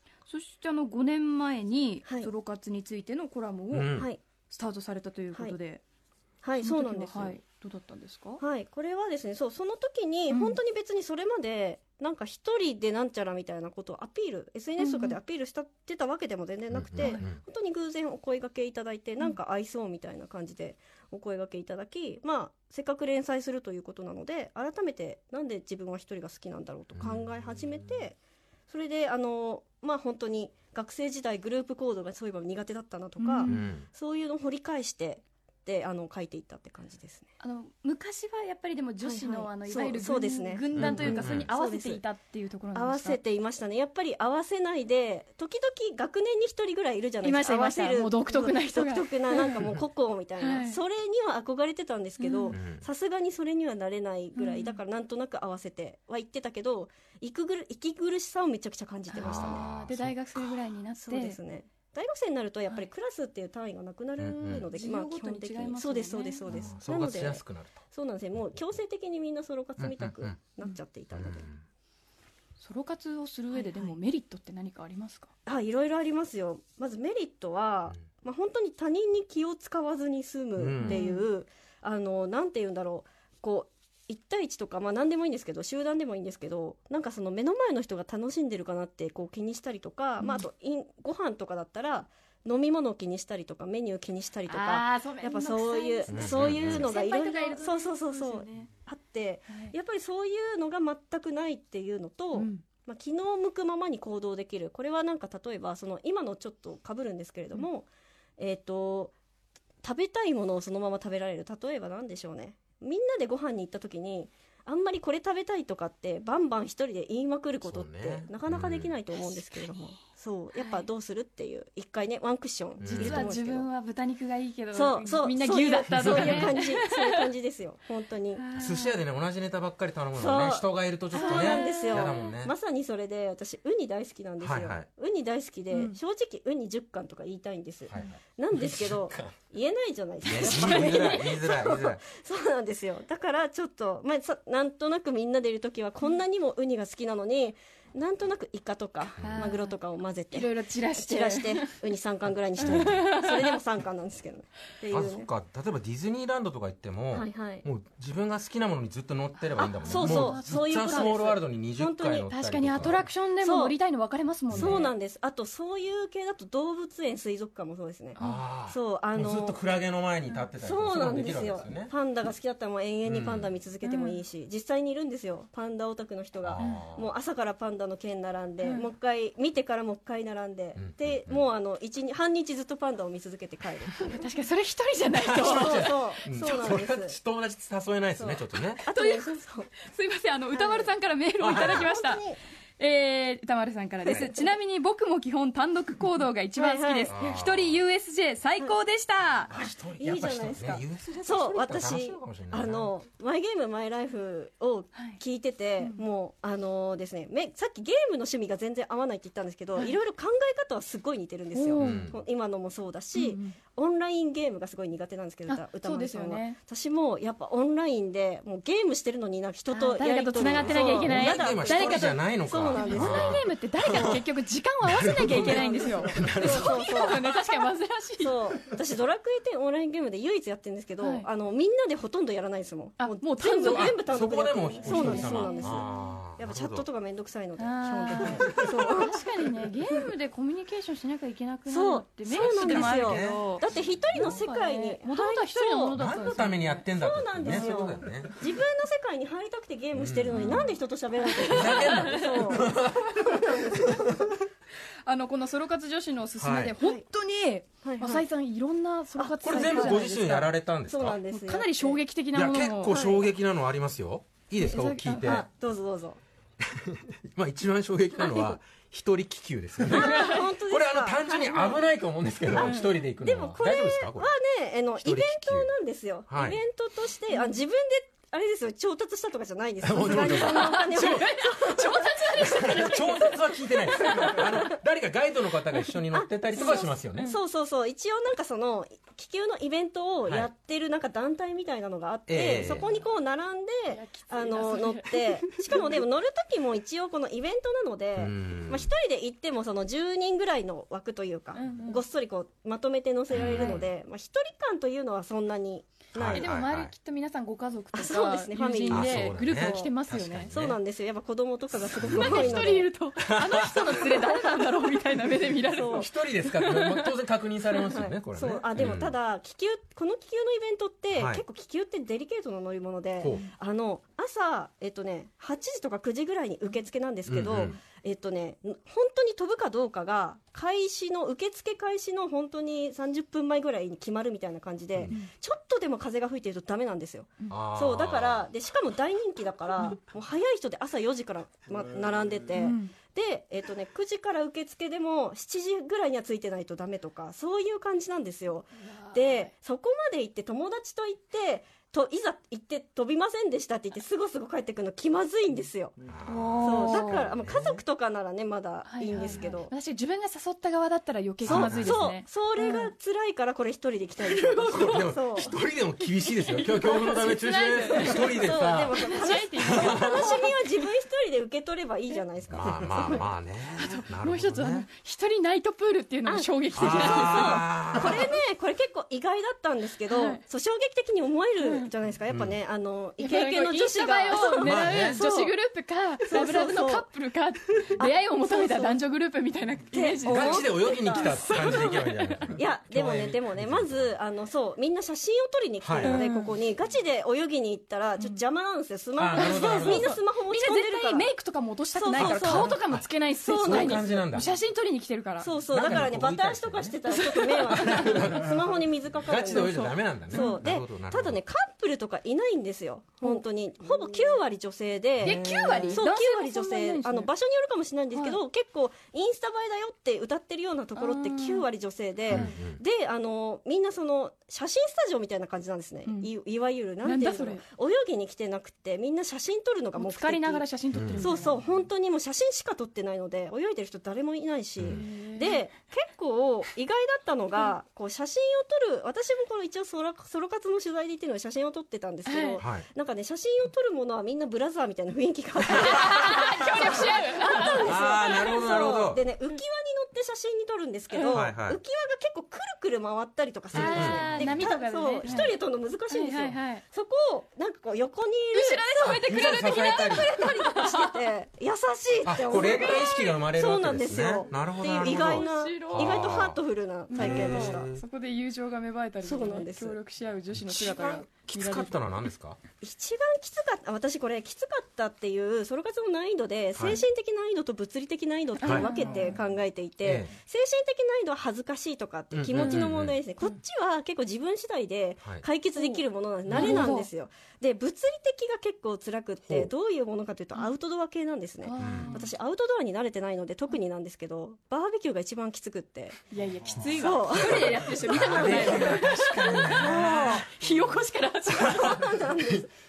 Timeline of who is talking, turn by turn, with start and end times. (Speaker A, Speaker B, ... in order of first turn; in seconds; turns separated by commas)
Speaker A: 0.3-5.8, Speaker B: 3.7-4.1, Speaker C: 4.0-4.2, Speaker C: 6.4-7.4, Speaker A: 6.6-8.4, Speaker C: 8.4-28.2, Speaker A: 10.3-10.6, Speaker A: 14.8-15.2, Speaker B: 16.7-17.4, Speaker B: 27.0-27.9, Speaker C: 28.7-37.3, Speaker A: 33.2-33.7, Speaker B: 33.5-33.9, Speaker A: 37.4-43.2, Speaker C: 39.0-42.0, Speaker B: 40.8-41.5, Speaker C: 42.8-59.7, Speaker A: 47.2-49.7, Speaker A: 50.4-50.8, Speaker A: 52.2-52.6, Speaker B: 52.5-52.9, Speaker A: 54.4-54.8, Speaker A: 59.1-61.4, Speaker B: 59.2-60.2, Speaker C: 61.0-71.5, Speaker B: 64.2-64.7, Speaker A: 64.5-66.7, Speaker B: 66.5-67.8, Speaker B: 69.8-70.4, Speaker B: 71.1-71.6, Speaker A: 72.6-75.3, Speaker C: 73.5-74.0, Speaker C: 75.5-109.1, Speaker B: 80.6-81.0, Speaker A: 80.8-81.3, Speaker A: 90.2-90.4, Speaker A: 94.5-98.7, Speaker B: 96.1-96.9, Speaker A: 99.5-99.8, Speaker A: 102.3-102.6, Speaker C: 109.8-123.7, Speaker B: 117.6-119.0, Speaker A: 120.5-120.9, Speaker B: 122.8-123.3, Speaker A: 122.9-127.2, Speaker C: 124.7-128.4, Speaker B: 126.0-126.5, Speaker A: 128.3-129.0, Speaker B: 128.6-132.5, Speaker C: 130.1-155.3, Speaker A: 131.1-132.3, Speaker B: 134.4-134.9, Speaker A: 135.7-136.0, Speaker B: 137.9-139.3, Speaker B: 140.3-142.0, Speaker A: 140.4-141.4, Speaker B: 149.2-149.5, Speaker A: 149.2-149.8, Speaker A: 150.3-151.8, Speaker A: 152.6-153.6, Speaker B: 152.6-153.0, Speaker B: 154.9-163.0, Speaker C: 157.1-157.7, Speaker A: 159.5-161.1, Speaker C: 159.9-162.3, Speaker A: 162.3-164.9, Speaker C: 163.4-163.8, Speaker B: 164.5-164.8, Speaker C: 164.5-169.6, Speaker A: 168.2-168.4, Speaker B: 168.2-171.9, Speaker C: 170.6-184.3, Speaker B: 173.1-173.5, Speaker A: 173.8-174.2, Speaker B: 176.4-177.1, Speaker A: 178.6-178.9, Speaker B: 180.8-181.4, Speaker A: 184.0-186.0, Speaker B: 185.2-188.8, Speaker C: 185.4-187.2, Speaker C: 188.2-189.7, Speaker A: 188.9-192.2, Speaker C: 190.5-190.9, Speaker B: 191.4-191.9, Speaker C: 191.5-192.4, Speaker A: 192.8-199.5, Speaker C: 196.6-197.1, Speaker B: 197.1-197.8, Speaker B: 199.5-202.9, Speaker C: 199.6-223.4, Speaker A: 204.9-205.2, Speaker A: 205.8-206.1, Speaker A: 211.5-212.1, Speaker B: 211.8-212.2, Speaker A: 213.1-213.6, Speaker A: 215.5-216.6, Speaker A: 219.7-228.5, Speaker B: 220.4-224.3, Speaker B: 224.8-227.3, Speaker C: 225.4-227.2, Speaker C: 228.2-239.2, Speaker A: 231.0-231.3, Speaker A: 233.0-234.1, Speaker B: 233.6-236.9, Speaker A: 234.7-236.1, Speaker A: 237.6-246.9, Speaker C: 241.7-246.0, Speaker B: 242.3-244.3, Speaker B: 245.9-248.4, Speaker C: 246.9-254.2, Speaker A: 247.4-247.9, Speaker B: 249.9-250.7, Speaker A: 250.3-252.5, Speaker B: 251.4-254.3, Speaker A: 255.1-260.5, Speaker B: 256.4-256.8, Speaker C: 257.8-258.3, Speaker C: 259.2-260.1, Speaker B: 259.4-261.2, Speaker C: 260.9-262.0, Speaker A: 261.3-263.0, Speaker B: 262.3-265.4, Speaker C: 262.9-263.3, Speaker A: 264.6-265.3, Speaker C: 265.1-266.2, Speaker B: 266.6-274.3, Speaker A: 268.2-268.5, Speaker A: 269.8-270.4, Speaker C: 269.9-271.8, Speaker C: 272.5-283.3, Speaker A: 272.5-272.9, Speaker B: 274.9-275.7, Speaker B: 276.3-276.6, Speaker A: 277.3-277.6, Speaker B: 279.8-281.2, Speaker A: 280.1-284.7, Speaker B: 282.4-287.3, Speaker C: 286.1-306.4, Speaker A: 286.5-287.4, Speaker B: 292.3-292.9, Speaker A: 293.9-296.0, Speaker B: 298.2-298.9, Speaker A: 301.5-302.0, Speaker B: 303.3-303.9, Speaker A: 303.3-303.8, Speaker B: 306.1-306.9, Speaker A: 306.1-310.6, Speaker C: 307.9-309.9, Speaker B: 308.9-310.8, Speaker C: 310.5-312.9, Speaker B: 311.9-314.2, Speaker A: 312.0-316.1, Speaker C: 315.7-316.1, Speaker B: 316.0-319.2, Speaker A: 316.6-317.1, Speaker C: 317.8-355.9, Speaker B: 321.1-321.4, Speaker B: 327.3-327.8, Speaker B: 337.5-338.5, Speaker A: 342.6-342.9, Speaker A: 348.8-349.5, Speaker B: 356.1-357.8, Speaker A: 356.3-357.3, Speaker C: 356.6-359.7, Speaker A: 358.9-362.9, Speaker B: 361.4-362.1, Speaker C: 361.5-365.6, Speaker A: 364.2-370.6, Speaker B: 364.8-369.0, Speaker C: 366.8-367.2, Speaker C: 368.0-373.2, Speaker B: 369.6-370.3, Speaker B: 372.5-374.9, Speaker A: 373.8-378.1, Speaker C: 376.3-385.5, Speaker B: 376.8-378.3, Speaker A: 380.1-380.4, Speaker A: 381.6-381.9, Speaker B: 382.3-382.6, Speaker A: 383.2-392.2, Speaker B: 384.6-385.2, Speaker C: 386.3-387.1, Speaker C: 387.9-389.0, Speaker C: 389.9-392.0, Speaker B: 390.2-394.2, Speaker C: 392.5-401.3, Speaker B: 395.8-396.2, Speaker A: 396.0-396.6, Speaker B: 399.2-400.2, Speaker A: 399.3-405.5, Speaker C: 401.9-402.8, Speaker B: 402.1-404.5, Speaker C: 403.4-404.4, Speaker C: 405.4-430.7, Speaker B: 405.7-407.1, Speaker A: 407.1-408.2, Speaker B: 407.7-411.4, Speaker A: 410.3-410.6, Speaker B: 415.2-416.0, Speaker A: 415.2-417.3, Speaker A: 418.1-418.4, Speaker A: 420.9-421.7, Speaker A: 422.3-422.6, Speaker B: 422.3-422.8, Speaker A: 426.1-426.3, Speaker A: 427.0-427.6, Speaker A: 430.0-431.7, Speaker B: 430.9-431.3, Speaker C: 431.2-459.5, Speaker B: 434.8-435.0, Speaker A: 434.9-435.6, Speaker A: 442.3-442.6, Speaker A: 445.7-448.6, Speaker B: 447.6-449.2, Speaker A: 451.1-451.4, Speaker B: 451.3-451.8, Speaker B: 453.7-454.6, Speaker A: 453.7-455.6, Speaker A: 456.1-456.8, Speaker A: 458.5-461.2, Speaker B: 459.0-460.3, Speaker C: 460.1-467.9, Speaker B: 462.2-466.6, Speaker A: 462.5-463.4, Speaker A: 465.0-466.3, Speaker A: 467.1-472.0, Speaker B: 467.1-468.0, Speaker C: 469.2-470.0, Speaker B: 470.5-472.6, Speaker C: 472.8-496.2, Speaker B: 476.8-477.0, Speaker A: 478.6-479.4, Speaker B: 478.6-478.9, Speaker B: 480.0-480.3, Speaker B: 482.3-483.2, Speaker A: 482.6-482.9, Speaker A: 485.8-487.1, Speaker B: 486.5-486.9, Speaker A: 491.6-492.3, Speaker B: 491.8-492.2, Speaker A: 496.3-502.0, Speaker C: 496.9-498.9, Speaker B: 497.3-500.5, Speaker C: 499.8-500.5, Speaker C: 501.5-502.7, Speaker B: 501.8-502.6